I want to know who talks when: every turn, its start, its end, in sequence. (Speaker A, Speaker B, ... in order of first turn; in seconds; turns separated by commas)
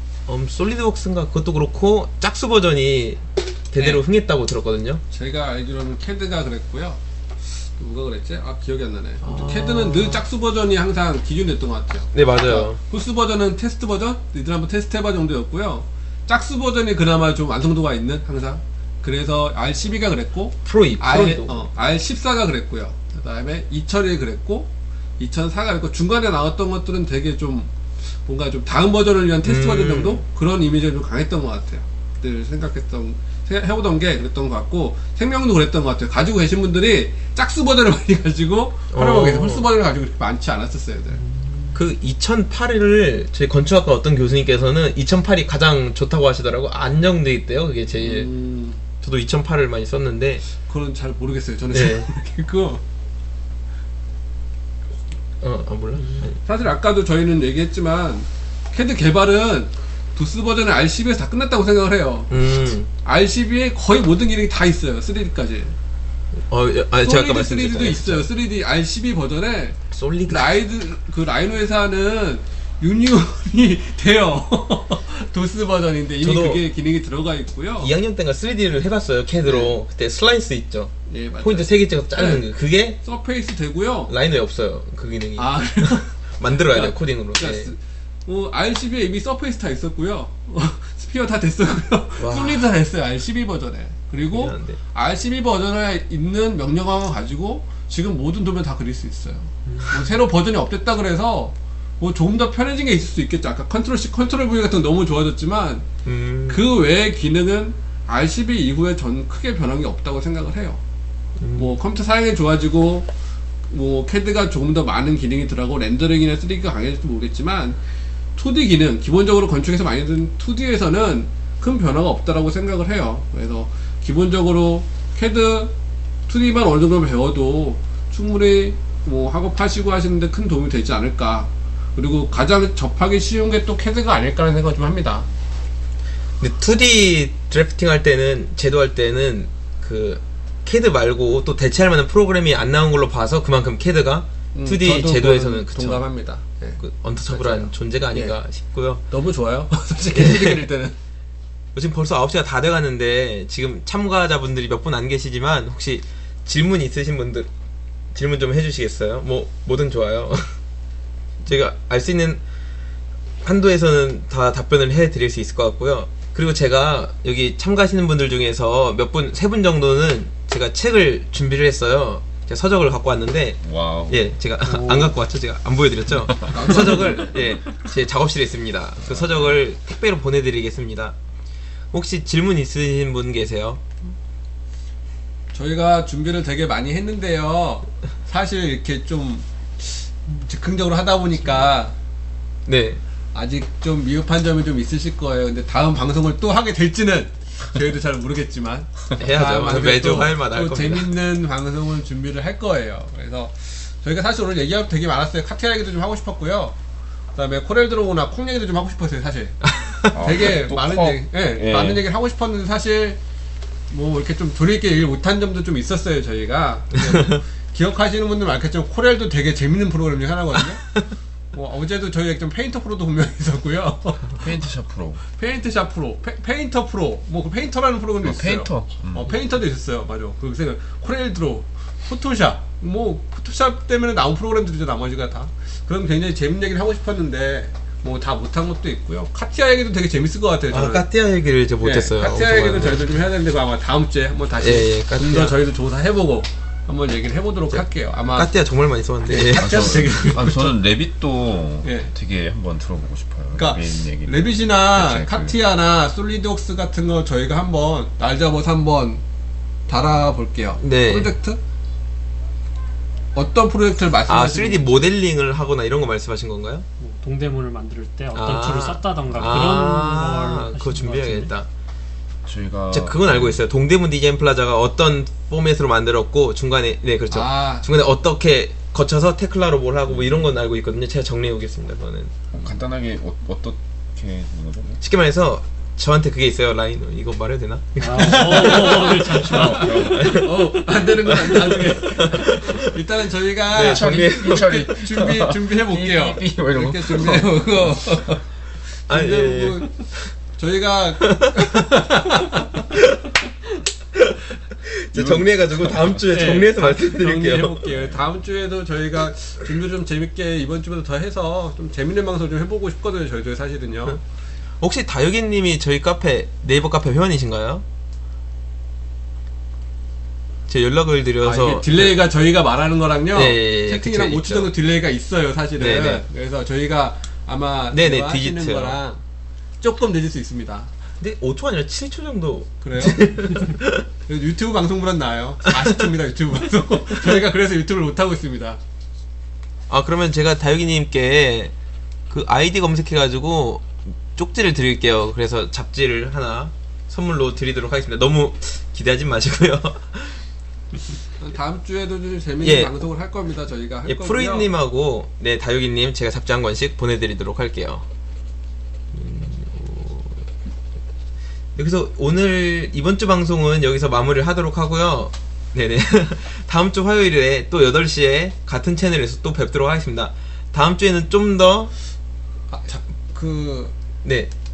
Speaker A: 0.2-5.0, Speaker B: 5.1-27.7, Speaker A: 9.2-10.2, Speaker A: 12.1-12.8, Speaker A: 20.6-21.6, Speaker B: 28.2-41.7, Speaker A: 29.4-30.2, Speaker A: 38.9-39.7, Speaker A: 41.7-48.3, Speaker B: 48.0-48.8, Speaker A: 49.0-50.4, Speaker B: 50.6-52.8, Speaker A: 51.7-52.1, Speaker A: 55.4-56.4, Speaker B: 56.4-65.7, Speaker A: 62.3-62.9, Speaker A: 66.5-68.3, Speaker B: 67.0-77.9, Speaker A: 69.9-70.6, Speaker A: 76.2-76.6, Speaker A: 77.8-83.0, Speaker B: 79.4-79.8, Speaker B: 81.1-84.1, Speaker A: 84.1-87.7, Speaker B: 85.4-105.9, Speaker A: 92.2-92.7, Speaker A: 94.3-94.8, Speaker A: 99.8-100.1, Speaker A: 106.0-106.7, Speaker B: 106.5-110.8, Speaker A: 111.4-111.8, Speaker B: 111.5-113.1, Speaker B: 113.7-117.8, Speaker B: 118.3-125.7, Speaker B: 126.3-135.3, Speaker A: 136.4-146.1, Speaker B: 144.5-148.3, Speaker A: 146.8-149.0, Speaker B: 149.1-150.9, Speaker A: 150.1-150.6, Speaker A: 151.7-157.5, Speaker A: 158.1-160.5, Speaker A: 161.4-162.4, Speaker A: 163.4-181.2, Speaker C: 173.6-174.3, Speaker C: 176.2-176.8, Speaker B: 176.5-177.3, Speaker C: 179.0-179.6, Speaker A: 181.9-183.8, Speaker B: 185.5-191.9, Speaker A: 192.7-193.0, Speaker B: 193.3-206.8, Speaker A: 199.2-201.1, Speaker B: 207.3-213.2, Speaker A: 209.7-210.2, Speaker C: 210.1-212.1, Speaker B: 213.9-221.0, Speaker A: 217.1-217.4, Speaker B: 221.5-224.4, Speaker C: 224.3-225.2, Speaker B: 225.4-241.1, Speaker C: 228.2-229.4, Speaker A: 240.7-243.1, Speaker B: 241.8-248.5, Speaker A: 244.6-245.6, Speaker A: 247.7-250.3, Speaker B: 249.2-250.8, Speaker C: 249.5-255.6, Speaker B: 251.8-252.1, Speaker B: 253.5-259.2, Speaker B: 259.9-261.6, Speaker A: 260.8-261.3, Speaker B: 263.3-265.1, Speaker A: 264.3-266.8, Speaker D: 267.0-271.5, Speaker A: 268.3-271.7, Speaker C: 269.3-269.7, Speaker C: 272.4-273.6, Speaker A: 272.9-282.4, Speaker B: 277.3-277.9, Speaker C: 280.1-280.6, Speaker C: 282.5-285.0, Speaker A: 285.0-293.0, Speaker D: 288.0-290.2, Speaker B: 288.2-298.4, Speaker C: 289.3-290.5, Speaker A: 293.7-295.2, Speaker C: 293.7-298.4, Speaker A: 299.1-300.3, Speaker B: 299.1-302.1, Speaker A: 301.2-303.3, Speaker A: 304.1-307.9, Speaker C: 305.1-306.6, Speaker B: 306.3-314.2, Speaker C: 307.9-308.2, Speaker A: 314.8-317.8, Speaker A: 320.7-322.2, Speaker B: 321.4-329.2, Speaker A: 323.3-324.7, Speaker A: 325.8-326.2, Speaker A: 327.9-329.0, Speaker B: 329.8-330.9, Speaker A: 331.2-334.0, Speaker B: 332.8-338.8, Speaker A: 339.9-341.7, Speaker A: 342.3-350.4, Speaker B: 351.4-354.7, Speaker A: 352.6-352.9, Speaker A: 354.0-358.0, Speaker A: 359.1-360.5, Speaker A: 361.8-371.9, Speaker B: 372.7-373.9, Speaker A: 374.2-374.5